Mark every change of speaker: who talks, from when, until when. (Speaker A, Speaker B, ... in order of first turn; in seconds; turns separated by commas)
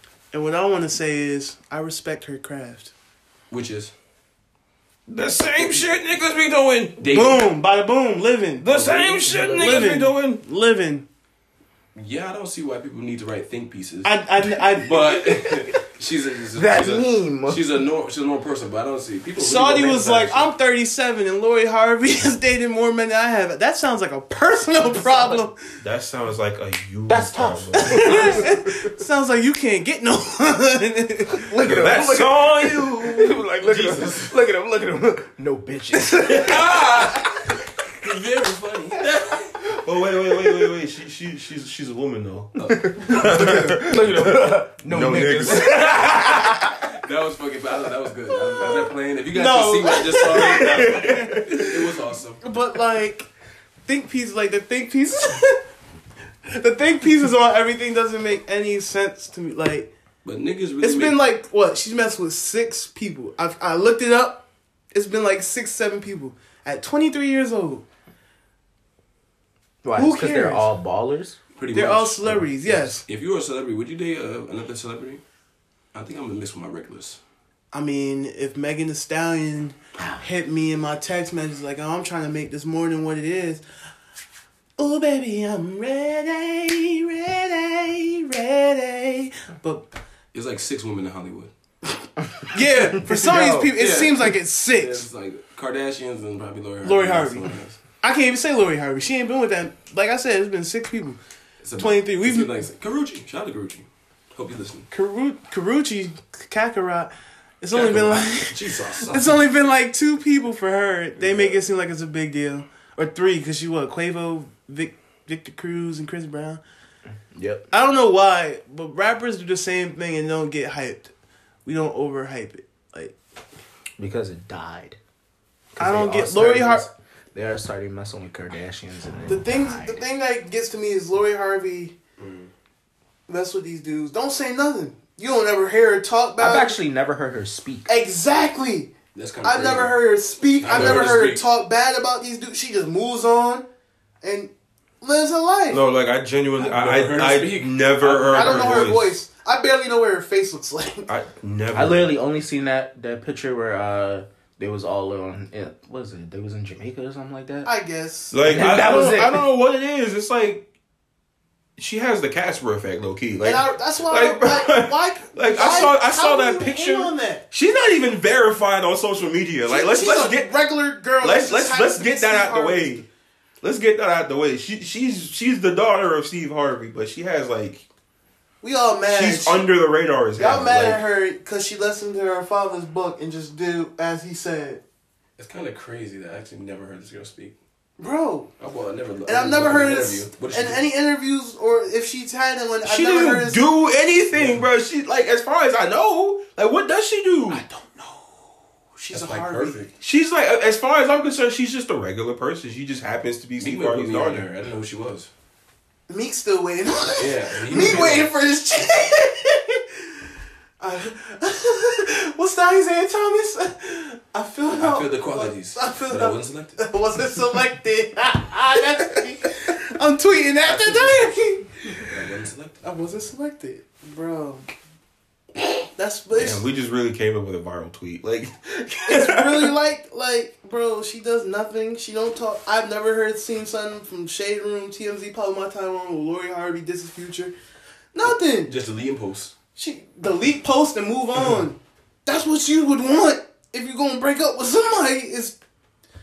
Speaker A: 0.3-2.9, Speaker B: 3.5-3.9, Speaker C: 5.1-7.1, Speaker B: 7.0-7.5, Speaker A: 7.1-8.7, Speaker C: 8.6-10.4, Speaker B: 8.7-9.6, Speaker D: 9.3-9.9, Speaker A: 9.5-11.1, Speaker B: 11.9-14.1, Speaker A: 14.0-15.2, Speaker B: 14.7-20.5, Speaker D: 15.2-15.8, Speaker D: 16.5-17.7, Speaker A: 19.4-25.6, Speaker C: 25.8-28.5, Speaker D: 27.1-28.9, Speaker A: 27.7-31.8, Speaker D: 31.3-37.0, Speaker C: 31.6-33.4, Speaker B: 33.6-34.3, Speaker B: 36.2-39.6, Speaker C: 39.6-46.5, Speaker B: 42.6-43.5, Speaker D: 42.8-46.9, Speaker B: 45.4-45.9, Speaker B: 46.9-52.4, Speaker A: 49.3-51.7, Speaker C: 50.5-51.7, Speaker A: 52.4-53.3, Speaker A: 53.9-55.6, Speaker A: 56.5-59.9, Speaker B: 60.2-61.2, Speaker A: 60.8-67.8, Speaker D: 69.8-71.4, Speaker A: 69.9-70.7, Speaker B: 71.5-75.2, Speaker A: 71.7-73.0, Speaker B: 75.9-77.2, Speaker A: 77.7-83.6, Speaker D: 80.0-80.2, Speaker A: 84.8-89.9, Speaker B: 90.3-91.5, Speaker A: 92.5-95.0, Speaker D: 93.0-93.7, Speaker B: 93.7-97.8, Speaker A: 96.8-101.2, Speaker B: 101.6-104.9, Speaker A: 101.8-102.5, Speaker A: 104.9-116.6, Speaker B: 107.7-109.4, Speaker B: 111.2-111.6, Speaker D: 117.3-117.6, Speaker A: 117.7-121.1, Speaker A: 121.7-123.2, Speaker D: 124.0-125.0, Speaker D: 125.8-130.0, Speaker A: 125.8-126.9, Speaker A: 129.3-131.9, Speaker B: 132.2-132.5, Speaker A: 133.3-136.8, Speaker D: 136.4-137.9, Speaker A: 137.9-138.9, Speaker B: 139.1-140.0, Speaker A: 139.4-143.7, Speaker B: 140.6-141.4, Speaker C: 140.7-141.1, Speaker A: 144.2-145.8, Speaker C: 145.7-149.2, Speaker B: 146.6-148.9, Speaker A: 148.3-151.1, Speaker C: 151.1-152.1, Speaker D: 151.7-157.7, Speaker A: 157.6-158.4, Speaker C: 158.3-160.6, Speaker D: 158.4-159.5, Speaker C: 161.8-170.5, Speaker A: 163.4-167.4, Speaker A: 169.7-173.0, Speaker C: 171.2-173.1, Speaker C: 173.6-177.8, Speaker A: 178.6-179.6, Speaker C: 179.1-181.0, Speaker A: 180.4-184.8, Speaker B: 185.4-187.6, Speaker A: 188.0-188.5, Speaker B: 188.6-190.8, Speaker A: 189.2-193.6, Speaker C: 192.8-197.6, Speaker B: 194.3-194.7, Speaker A: 197.5-198.4, Speaker A: 198.9-199.8, Speaker B: 199.1-199.9, Speaker C: 200.0-204.5, Speaker B: 203.6-205.3, Speaker A: 206.1-210.2, Speaker B: 207.2-208.3, Speaker A: 210.8-222.1, Speaker B: 214.8-216.8, Speaker B: 220.6-221.3, Speaker B: 222.0-222.8, Speaker A: 222.8-224.7, Speaker A: 225.7-226.6, Speaker C: 226.3-229.7, Speaker A: 229.1-237.5, Speaker A: 238.1-238.7, Speaker B: 238.6-239.5, Speaker A: 239.7-245.6